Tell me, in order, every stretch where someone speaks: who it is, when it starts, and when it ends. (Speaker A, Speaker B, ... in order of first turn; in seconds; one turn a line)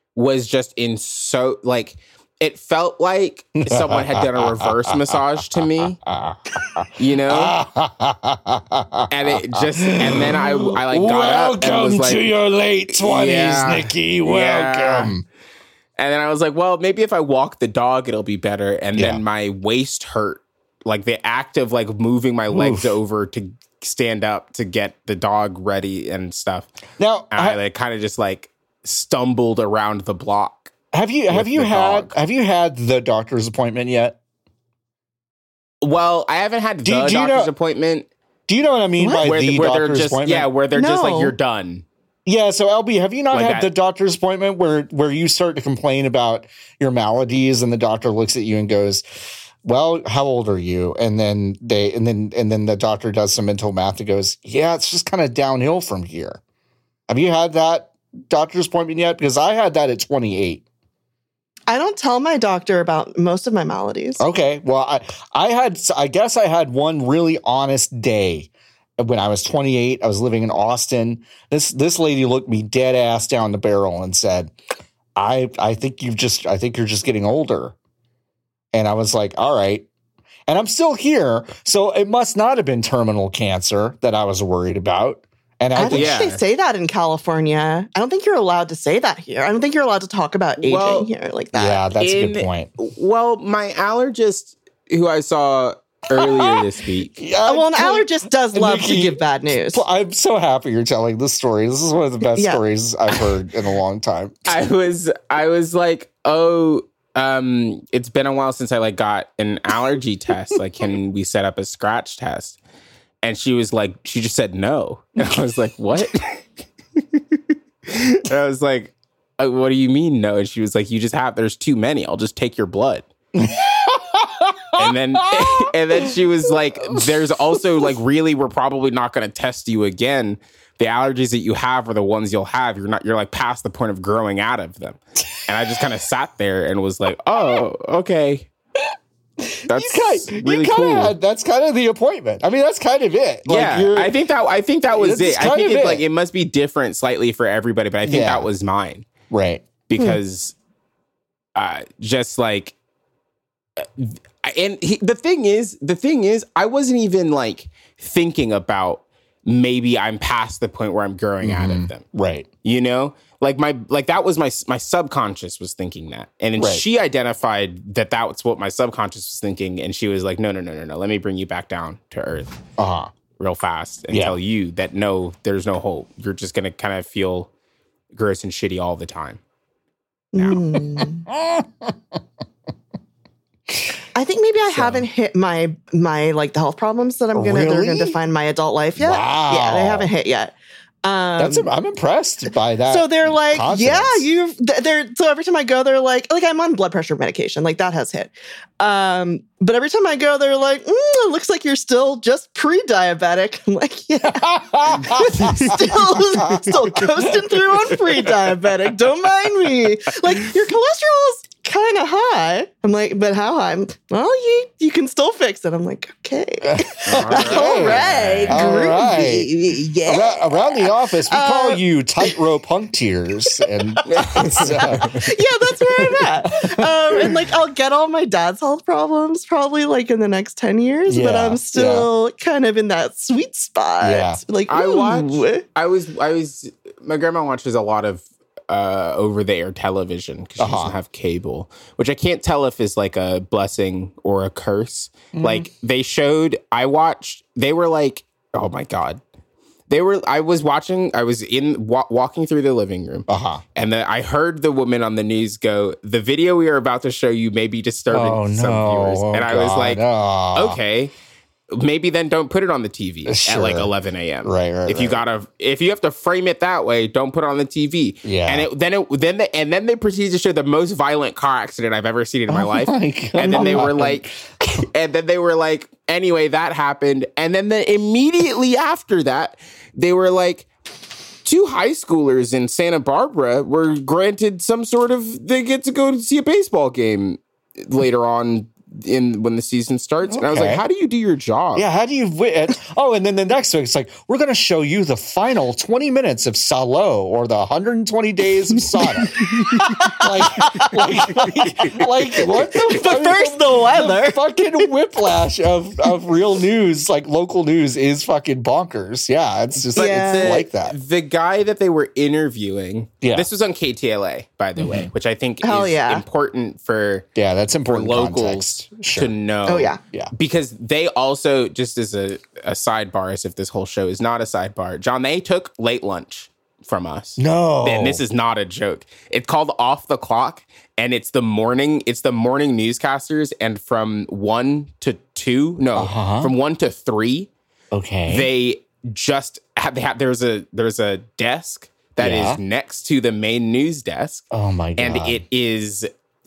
Speaker A: 0.1-6.0
Speaker B: 3.6-15.2
Speaker A: 7.0-7.5
Speaker A: 9.1-12.2
Speaker A: 12.9-15.1
Speaker A: 16.0-26.7
Speaker B: 18.9-19.2
Speaker B: 22.5-23.0
Speaker B: 27.0-27.6
Speaker A: 27.3-30.7
Speaker B: 30.9-34.2
Speaker A: 31.3-32.1
Speaker A: 35.8-38.1
Speaker B: 36.8-37.5
Speaker B: 38.5-40.5
Speaker C: 39.0-39.3
Speaker A: 39.2-41.8
Speaker C: 40.7-41.3
Speaker B: 42.2-49.0
Speaker A: 43.3-43.7
Speaker B: 49.6-56.4
Speaker B: 57.1-60.6
Speaker C: 61.7-64.2
Speaker B: 64.2-74.5
Speaker B: 75.2-77.8
Speaker B: 78.7-79.9
Speaker B: 80.5-86.3
Speaker C: 85.8-91.8
Speaker A: 85.9-86.4
Speaker A: 90.6-91.1
Speaker B: 91.5-92.7
Speaker A: 92.0-97.2
Speaker B: 96.1-96.7
Speaker B: 97.2-104.5
Speaker C: 97.5-99.8
Speaker C: 102.3-102.6
Speaker A: 104.5-112.6
Speaker A: 113.2-116.4
Speaker A: 117.0-123.1
Speaker B: 123.3-127.9
Speaker A: 124.8-138.5
Speaker B: 139.4-144.1
Speaker A: 139.7-141.1
Speaker A: 143.5-149.1
Speaker B: 144.9-146.0
Speaker B: 148.0-148.5
Speaker B: 149.3-149.7
Speaker A: 149.9-150.5
Speaker A: 151.5-152.7
Speaker A: 153.8-162.0
Speaker B: 161.4-162.5
Speaker A: 162.6-172.5
Speaker B: 166.6-166.8
Speaker B: 172.8-173.1
Speaker A: 173.4-177.5
Speaker B: 174.1-174.4
Speaker A: 178.1-179.4
Speaker C: 180.3-181.3
Speaker A: 180.3-180.6
Speaker B: 181.0-182.0
Speaker C: 184.2-191.7
Speaker B: 184.7-185.1
Speaker B: 187.3-188.2
Speaker B: 189.0-190.1
Speaker B: 191.4-194.3
Speaker C: 192.9-222.4
Speaker B: 204.3-207.7
Speaker A: 205.3-205.8
Speaker B: 216.6-219.5
Speaker A: 217.0-218.8
Speaker B: 220.0-225.2
Speaker C: 223.5-235.7
Speaker A: 224.1-225.2
Speaker B: 225.8-227.4
Speaker B: 231.1-232.1
Speaker B: 234.0-234.4
Speaker A: 234.7-249.2
Speaker B: 240.6-241.0
Speaker B: 245.3-245.7
Speaker A: 249.9-260.0
Speaker B: 253.3-253.6
Speaker B: 258.1-260.8
Speaker A: 260.5-261.1
Speaker A: 261.7-280.7
Speaker B: 263.2-263.9
Speaker B: 264.4-265.2
Speaker B: 268.2-268.7
Speaker B: 272.5-274.3
Speaker C: 273.4-273.9
Speaker A: 281.4-291.9
Speaker B: 290.2-290.8
Speaker B: 291.8-310.9
Speaker A: 299.4-299.9
Speaker C: 299.4-304.9
Speaker A: 309.9-317.2
Speaker C: 309.9-310.6
Speaker B: 313.2-313.5
Speaker B: 314.8-315.1
Speaker C: 315.6-316.2
Speaker B: 317.4-319.3
Speaker A: 317.9-337.5
Speaker C: 319.6-320.0
Speaker B: 320.0-320.3
Speaker B: 327.4-328.2
Speaker B: 335.9-336.5
Speaker B: 337.9-338.5
Speaker A: 338.3-344.5
Speaker B: 342.2-342.6
Speaker B: 344.5-345.4
Speaker A: 345.0-346.1